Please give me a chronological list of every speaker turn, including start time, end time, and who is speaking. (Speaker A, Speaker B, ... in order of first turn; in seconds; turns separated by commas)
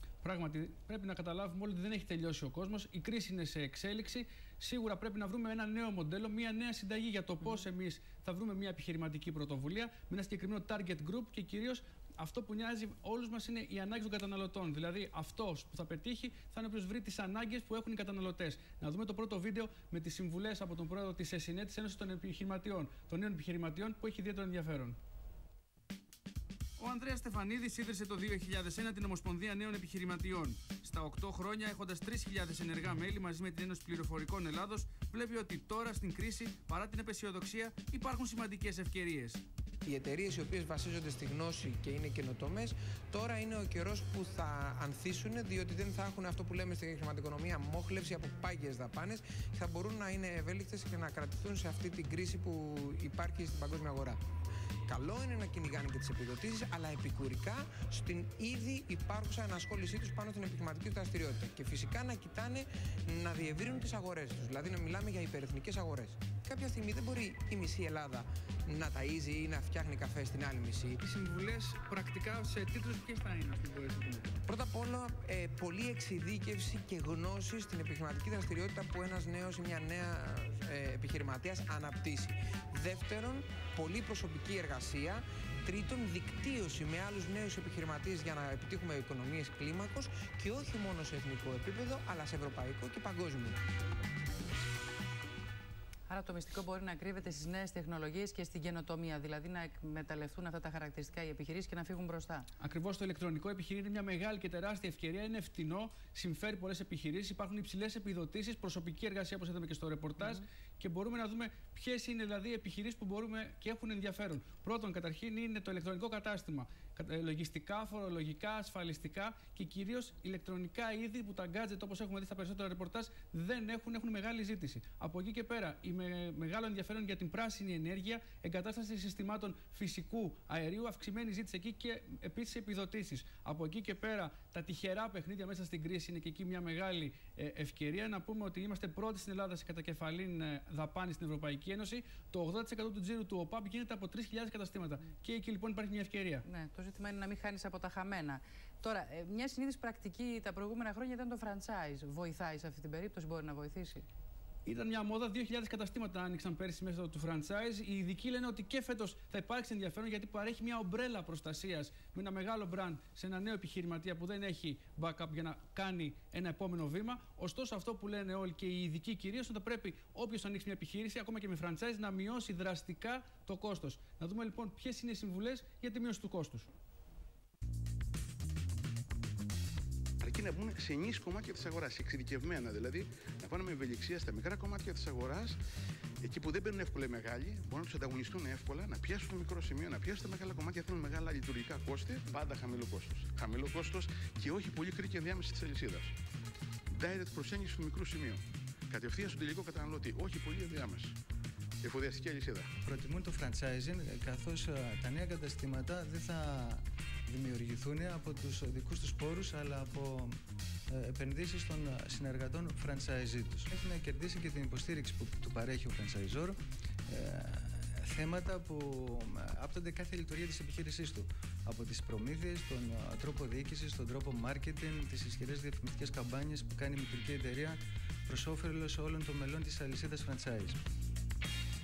Speaker A: 0.2-25.0, Speaker A: 26.8-39.4, Speaker B: 39.9-54.2, Speaker B: 54.9-71.0, Speaker A: 71.0-74.3, Speaker B: 74.5-93.6, Speaker C: 96.1-102.5, Speaker A: 102.6-146.4, Speaker C: 146.4-154.1, Speaker A: 154.7-176.7, Speaker D: 180.2-185.6, Speaker D: 186.2-196.1, Speaker D: 196.9-201.2, Speaker D: 201.8-202.7, Speaker E: 202.8-230.8